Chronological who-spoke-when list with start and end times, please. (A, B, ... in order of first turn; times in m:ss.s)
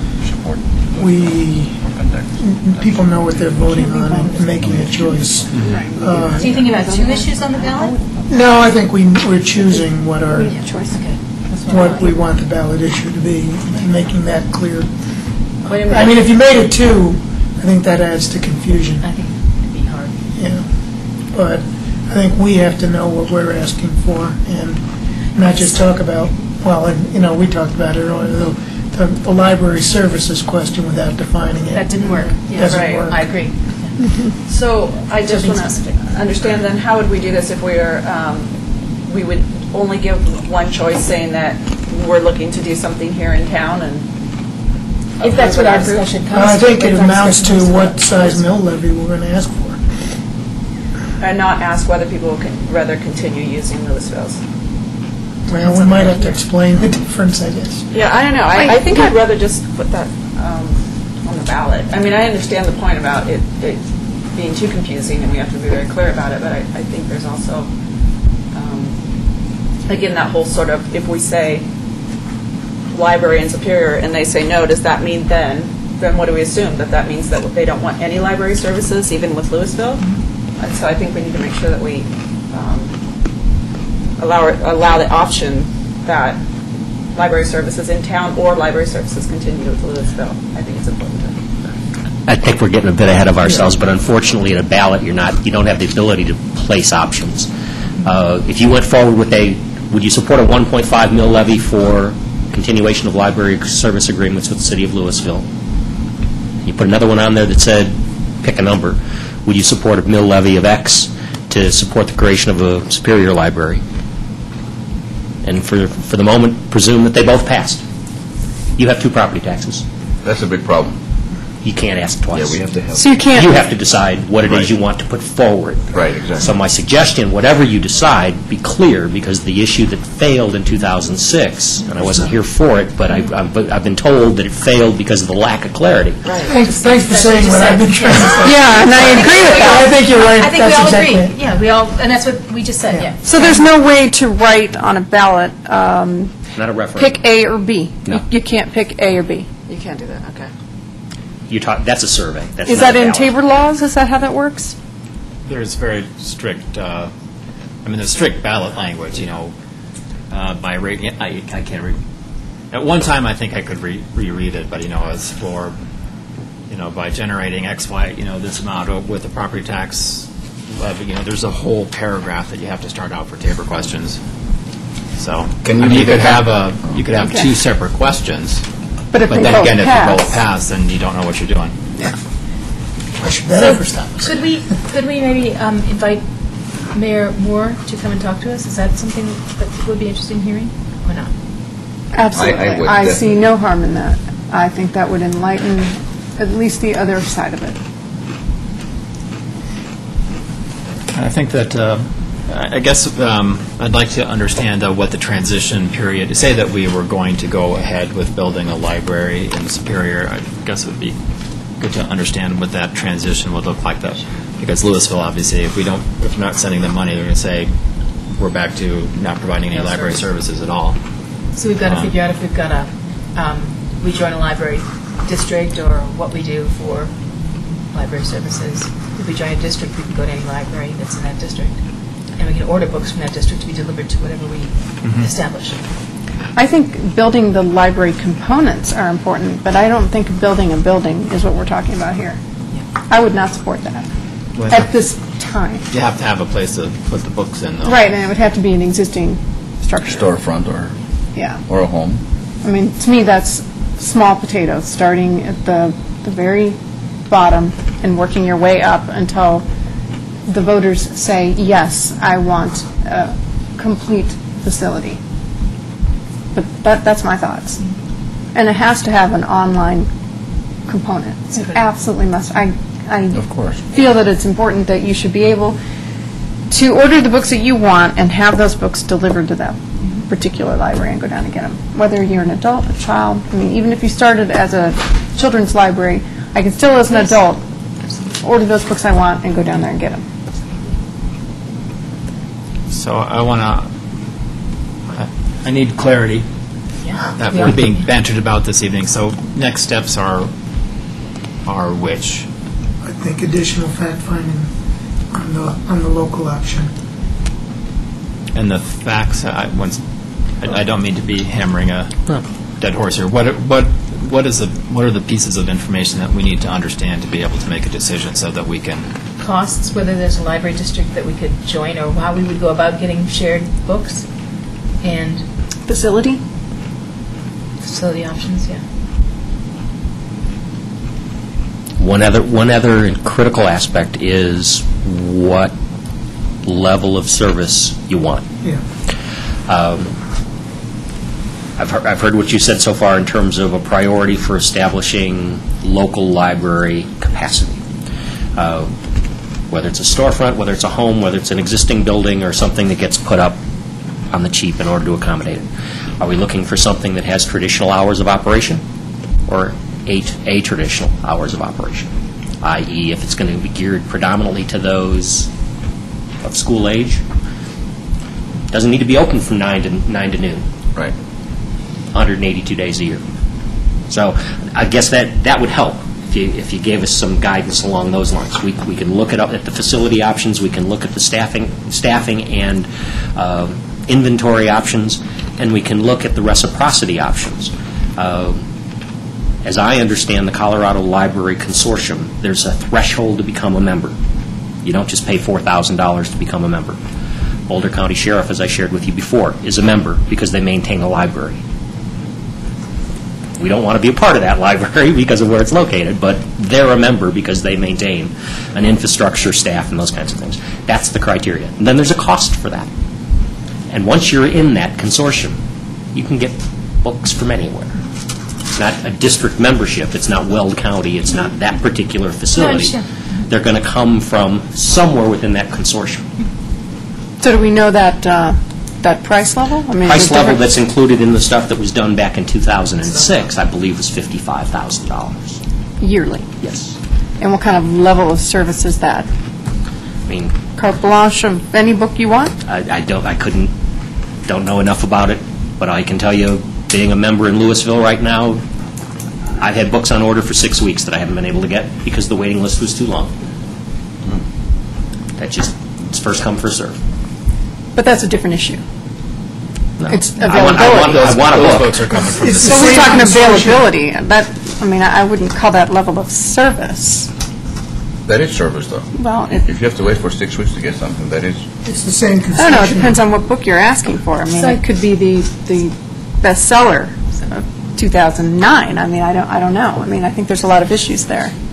0:00.2-0:03.0 A
0:01.0-0:01.8 B
0:02.4-0:06.6 B
0:05.6-0:07.9 C
0:06.4-0:08.0 D
0:08.3-0:10.6 B
0:10.4-0:11.1 C
0:10.9-0:12.0 D
0:11.7-0:14.9 B
0:15.7-0:16.1 D
0:15.8-0:19.0 B
0:19.0-0:20.1 D
0:20.4-0:20.7 B
0:21.3-0:24.8 B
0:25.3-0:33.2 B
0:31.7-0:34.0 D
0:32.6-0:33.0 E
0:34.5-0:44.1 E
0:35.2-0:36.0 D
0:45.2-0:46.0 E
0:45.2-0:48.4 D
0:46.3-0:49.8 B
0:51.2-0:54.4 E
0:55.5-0:57.8 B
0:55.6-0:56.3 D
0:57.9-1:07.7 E
0:58.5-0:59.2 C
1:08.5-1:09.0 E
1:09.9-1:11.6 E
1:12.9-1:22.9 E
1:24.2-1:26.4 E
1:27.2-1:31.4 E
1:32.3-1:37.5 F
1:38.0-1:45.4 F
1:46.6-1:53.8 F
1:55.4-1:57.8 F
1:58.8-1:59.8 F
2:00.2-2:01.0 A
2:01.6-2:02.6 F
2:02.3-2:03.1 A
2:03.0-2:03.6 C
2:03.3-2:16.2 F
2:05.9-2:06.5 A
2:16.2-2:16.5 E
2:16.4-2:21.3 B
2:16.7-2:23.4 D
2:18.4-2:19.9 C
2:23.2-2:26.3 C
2:26.6-2:27.2 F
2:27.0-2:29.5 C
2:29.7-2:30.5 E
2:31.5-2:33.3 F
2:32.7-2:34.8 C
2:35.5-2:37.1 G
2:37.8-2:39.5 G
2:40.3-2:42.0 G
2:42.7-2:45.8 G
2:46.7-2:54.2 G
2:55.2-2:58.6 G
2:55.6-2:56.4 A
2:59.1-3:00.3 C
2:59.2-3:01.8 G
3:03.2-3:04.4 B
3:03.6-3:06.2 D
3:06.9-3:11.3 D
3:12.1-3:17.8 C
3:12.3-3:13.3 A
3:21.1-3:31.2 G
3:31.8-3:37.7 G
3:38.4-3:41.0 G
3:39.7-3:40.2 D
3:41.6-3:47.1 D
3:41.8-3:42.1 G
3:47.9-3:51.8 D
3:52.4-3:55.8 D
3:56.6-4:02.4 C
4:03.1-4:04.0 C
4:04.6-4:04.9 G
4:04.7-4:05.8 C
4:05.9-4:08.1 G
4:07.8-4:10.2 C
4:10.0-4:11.0 A
4:11.7-4:12.2 A
4:12.6-4:16.8 C
4:17.3-4:19.6 C
4:20.5-4:25.2 C
4:26.5-4:27.8 C
4:28.6-4:30.1 C
4:30.9-4:35.8 C
4:33.3-4:33.8 A
4:36.7-4:39.8 C
4:40.3-4:47.6 C
4:48.4-4:50.2 C
4:52.9-4:53.9 G
4:55.2-4:56.5 G
4:57.0-4:57.8 D
4:57.4-5:00.5 G
5:01.6-5:02.5 G
5:03.0-5:04.7 B
5:05.3-5:06.9 B
5:08.5-5:10.1 G
5:10.6-5:19.1 G
5:19.4-5:24.3 D
5:25.0-5:25.4 D
5:25.9-5:26.4 C
5:27.8-5:28.8 D
5:32.0-5:35.7 F
5:36.6-5:38.4 F
5:39.7-5:40.1 F
5:41.8-5:47.8 F
5:48.6-5:48.9 F
5:49.7-5:53.6 F
5:54.3-5:55.7 F
5:56.2-5:58.8 F
5:59.5-6:02.1 F
6:02.6-6:05.5 F
6:06.4-6:07.2 F
6:08.7-6:10.6 F
6:12.1-6:13.2 F
6:14.1-6:28.6 F
6:29.6-6:34.2 F
6:34.8-6:37.0 F
6:37.7-6:41.6 F
6:43.6-6:52.9 F
6:53.9-6:55.6 F
6:56.1-6:58.0 F
6:58.8-7:06.3 F
7:02.6-7:03.0 D
7:07.4-7:10.6 C
7:10.0-7:15.6 F
7:16.0-7:16.5 C
7:16.6-7:16.9 F
7:17.4-7:19.3 C
7:20.3-7:20.6 F
7:20.8-7:22.6 C
7:22.7-7:23.7 F
7:24.5-7:28.6 F
7:29.6-7:33.3 F
7:35.4-7:37.0 F
7:38.0-7:38.8 C
7:40.0-7:42.2 F
7:40.1-7:41.3 C
7:40.4-7:43.3 G
7:42.4-7:43.9 B
7:42.6-7:47.3 C
7:48.3-7:51.6 A
7:49.2-7:49.7 C
7:51.8-7:53.2 B
7:52.6-8:01.5 C